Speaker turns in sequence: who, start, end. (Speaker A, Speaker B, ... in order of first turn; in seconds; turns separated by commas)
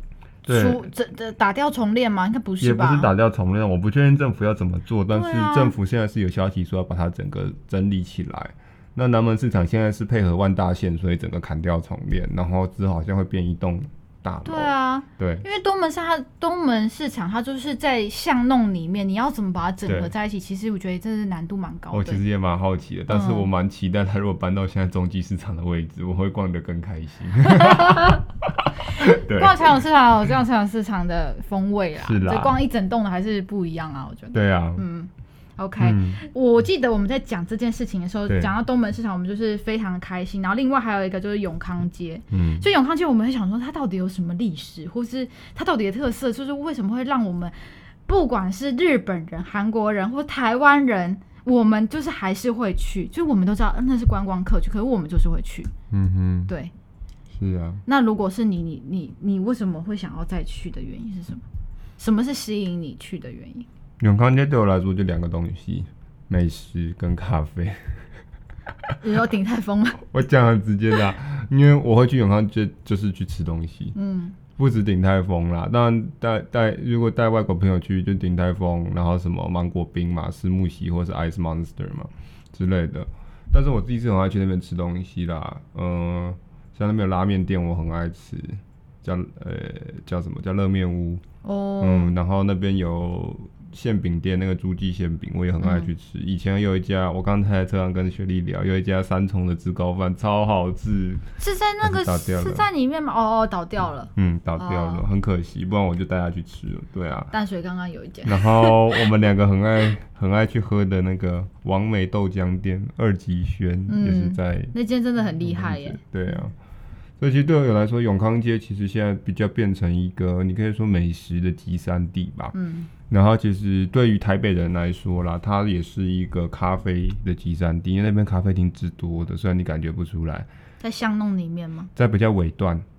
Speaker A: 0.5-0.9, Speaker B: 0.5-3.1, Speaker A: 2.6-15.4, Speaker B: 5.1-5.7, Speaker B: 14.4-22.2, Speaker A: 19.9-20.1, Speaker A: 21.9-29.8, Speaker B: 23.1-23.5, Speaker B: 27.5-28.2, Speaker B: 28.9-55.7, Speaker A: 32.0-32.6, Speaker A: 34.3-34.8, Speaker A: 35.8-36.2, Speaker A: 42.3-42.7, Speaker A: 55.9-56.5, Speaker A: 57.3-57.8, Speaker B: 57.9-61.4, Speaker B: 62.0-63.7, Speaker A: 64.0-68.0, Speaker B: 69.0-70.0, Speaker A: 70.0-74.0, Speaker B: 74.0-74.4, Speaker A: 74.6-91.2, Speaker B: 91.4-92.1, Speaker A: 91.8-101.3, Speaker B: 95.6-95.9, Speaker B: 101.4-105.0, Speaker A: 101.8-102.7, Speaker A: 104.2-107.3, Speaker B: 107.3-109.0, Speaker A: 108.2-114.8, Speaker B: 113.9-116.3, Speaker A: 115.4-116.5, Speaker A: 117.2-122.5, Speaker B: 122.5-122.9, Speaker A: 123.1-130.5, Speaker B: 130.8-131.9, Speaker A: 132.0-132.9